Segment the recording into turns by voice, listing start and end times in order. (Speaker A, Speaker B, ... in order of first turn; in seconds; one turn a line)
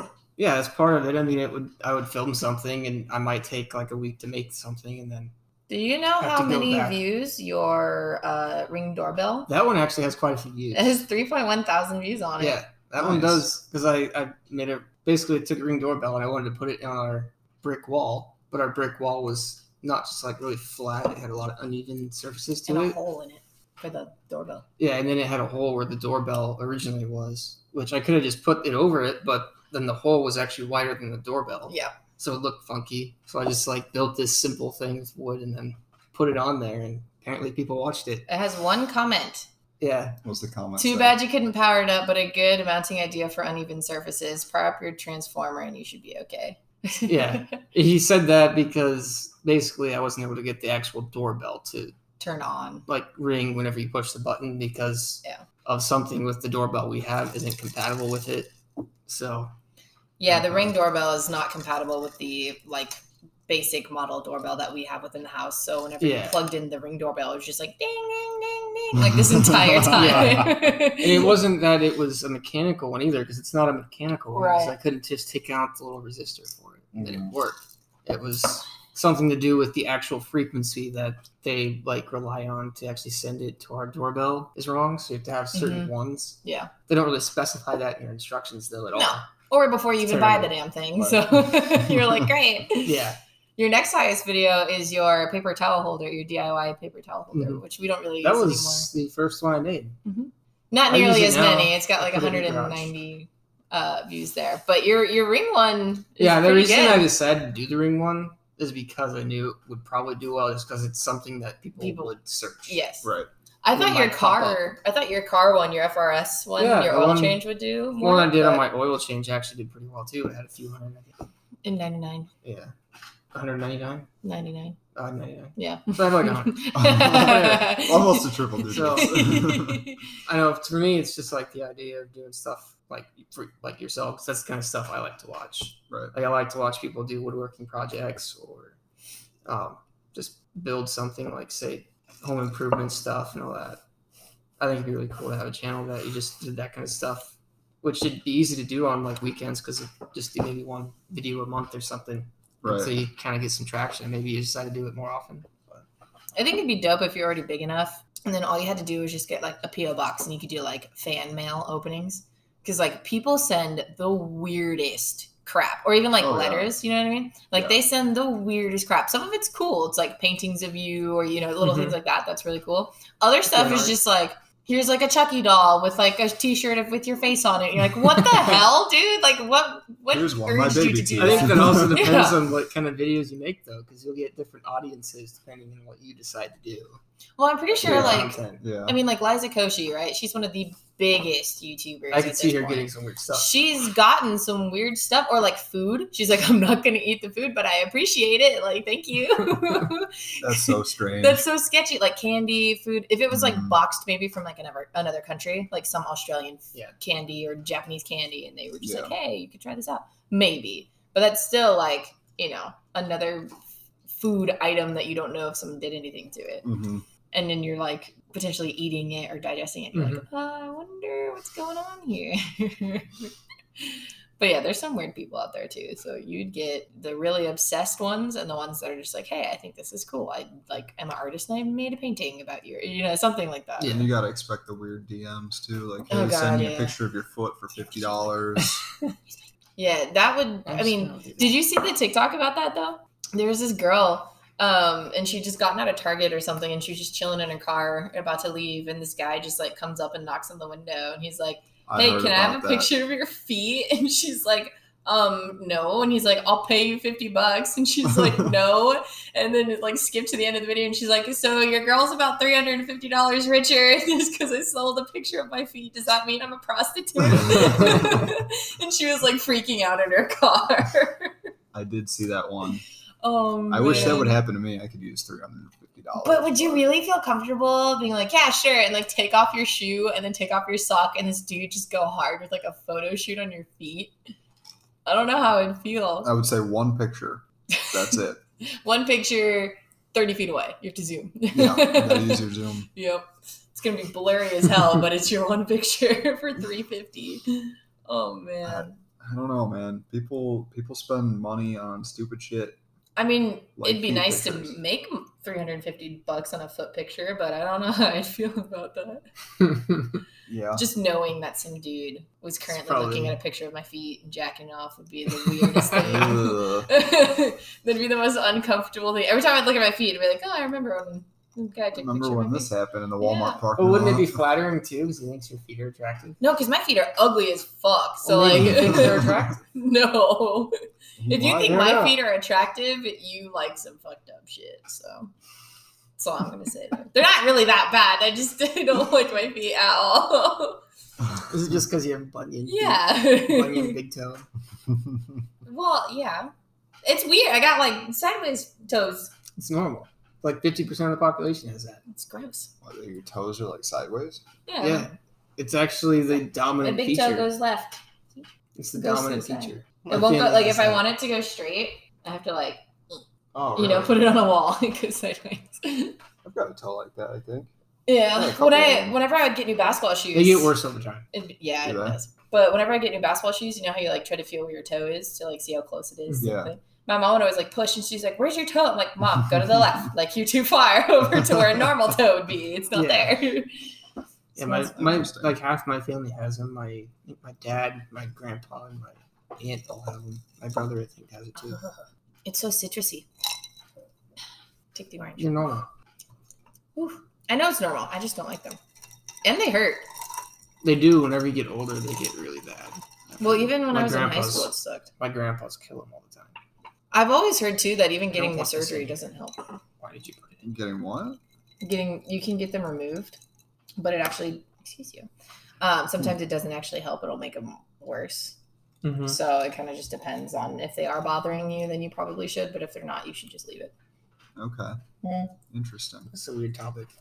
Speaker A: 0.4-5.3
Speaker B: 5.7-9.5
Speaker A: 6.2-7.0
Speaker A: 9.5-11.0
Speaker B: 10.7-12.6
Speaker A: 12.4-23.0
Speaker C: 13.0-13.5
Speaker B: 22.7-24.7
Speaker A: 24.8-38.3
Speaker B: 38.3-39.5
Speaker A: 39.8-40.2
Speaker C: 40.2-41.2
Speaker B: 40.8-47.4
Speaker A: 47.1-52.0
Speaker B: 52.2-52.9
Speaker A: 52.9-58.5
Speaker A: 59.1-59.5
Speaker B: 60.2-71.4
Speaker C: 60.3-60.7
Speaker A: 66.0-66.4
Speaker C: 69.1-70.4
Speaker A: 69.8-89.3
Speaker B: 74.3-74.8
Speaker C: 77.0-77.3
Speaker B: 85.5-85.9
Speaker B: 86.4-86.7
Speaker B: 89.0-93.0
Speaker A: 90.0-90.5
Speaker C: 91.0-92.1
Speaker A: 92.8-93.2
Speaker B: 93.6-98.9
Speaker A: 97.3-97.6
Speaker A: 98.2-100.0
Speaker B: 100.1-107.1
Speaker A: 100.9-102.9
Speaker A: 106.2-112.8
Speaker B: 111.8-112.2
Speaker B: 112.7-113.1
Speaker C: 113.0-113.3
Speaker B: 113.6-118.7
Speaker A: 113.7-114.7
Speaker A: 116.6-117.4
Speaker A: 118.0-121.2
Speaker B: 121.6-122.3
Speaker A: 122.4-122.7
Speaker A: 123.3-124.1
Speaker B: 124.2-124.8
Speaker A: 125.0-127.1
Speaker B: 125.6-130.0
Speaker C: 126.8-129.8
Speaker A: 128.7-129.2
Speaker A: 130.3-138.8
Speaker A: 139.4-143.8
Speaker A: 144.6-155.8
Speaker C: 152.6-153.0
Speaker B: 156.4-182.5
Speaker C: 166.2-166.8
Speaker C: 167.5-167.8
Speaker A: 171.6-172.0
Speaker A: 173.5-174.0
Speaker C: 180.1-182.1
Speaker A: 181.2-187.0
Speaker B: 187.4-213.5
Speaker A: 187.8-188.6
Speaker C: 187.8-189.0
Speaker A: 192.1-193.6
Speaker C: 200.4-201.4
Speaker C: 203.3-203.7
Speaker C: 208.8-209.2
Speaker B: 214.1-216.6
Speaker C: 216.6-217.1
Speaker B: 217.3-234.0
Speaker A: 219.9-220.2
Speaker C: 233.8-238.8
Speaker B: 236.1-237.0
Speaker B: 239.8-271.3
Speaker A: 240.7-241.6
Speaker C: 251.9-252.9
Speaker C: 271.7-272.8
Speaker B: 273.2-274.4
Speaker C: 273.7-276.9
Speaker B: 276.2-284.1
Speaker B: 285.1-286.3
Speaker C: 286.2-288.4
Speaker B: 287.8-288.1
Speaker B: 288.8-299.0
Speaker C: 291.5-292.9
Speaker C: 298.6-302.8
Speaker B: 303.2-309.2
Speaker C: 303.8-304.8
Speaker C: 310.5-310.8
Speaker B: 310.8-323.6
Speaker A: 312.7-313.4
Speaker C: 316.0-316.9
Speaker C: 321.9-324.4
Speaker A: 323.8-326.4
Speaker B: 326.4-330.8
Speaker A: 328.2-329.6
Speaker C: 331.2-332.0
Speaker B: 331.3-335.3
Speaker A: 331.6-332.2
Speaker B: 336.2-340.8
Speaker A: 341.5-344.5
Speaker B: 342.7-344.0
Speaker B: 345.6-346.5
Speaker B: 347.1-349.3
Speaker A: 349.6-352.0
Speaker B: 352.1-352.7
Speaker C: 352.8-354.4
Speaker B: 354.7-355.1
Speaker A: 354.8-357.5
Speaker B: 356.8-363.2
Speaker A: 358.8-361.1
Speaker C: 363.6-364.2
Speaker A: 363.7-364.1
Speaker B: 363.8-366.2
Speaker C: 366.4-367.7
Speaker B: 368.1-370.7
Speaker C: 368.3-369.2
Speaker A: 370.3-371.2
Speaker B: 371.3-383.7
Speaker C: 371.8-372.2
Speaker A: 376.3-376.5
Speaker C: 376.4-376.7
Speaker A: 382.9-383.4
Speaker B: 384.6-385.3
Speaker A: 384.6-391.8
Speaker C: 384.9-385.6
Speaker B: 391.6-393.3
Speaker B: 394.9-395.7
Speaker A: 395.4-395.9
Speaker B: 397.0-398.8
Speaker B: 399.4-400.0
Speaker A: 400.8-406.6
Speaker B: 403.4-405.1
Speaker B: 407.1-409.6
Speaker A: 408.3-409.2
Speaker A: 410.0-410.6
Speaker C: 410.6-411.4
Speaker B: 411.8-413.4
Speaker B: 414.0-415.3
Speaker B: 415.8-418.6
Speaker A: 419.0-419.4
Speaker B: 419.3-423.9
Speaker C: 424.6-425.0
Speaker A: 425.2-425.5
Speaker C: 425.7-426.3
Speaker A: 426.3-427.1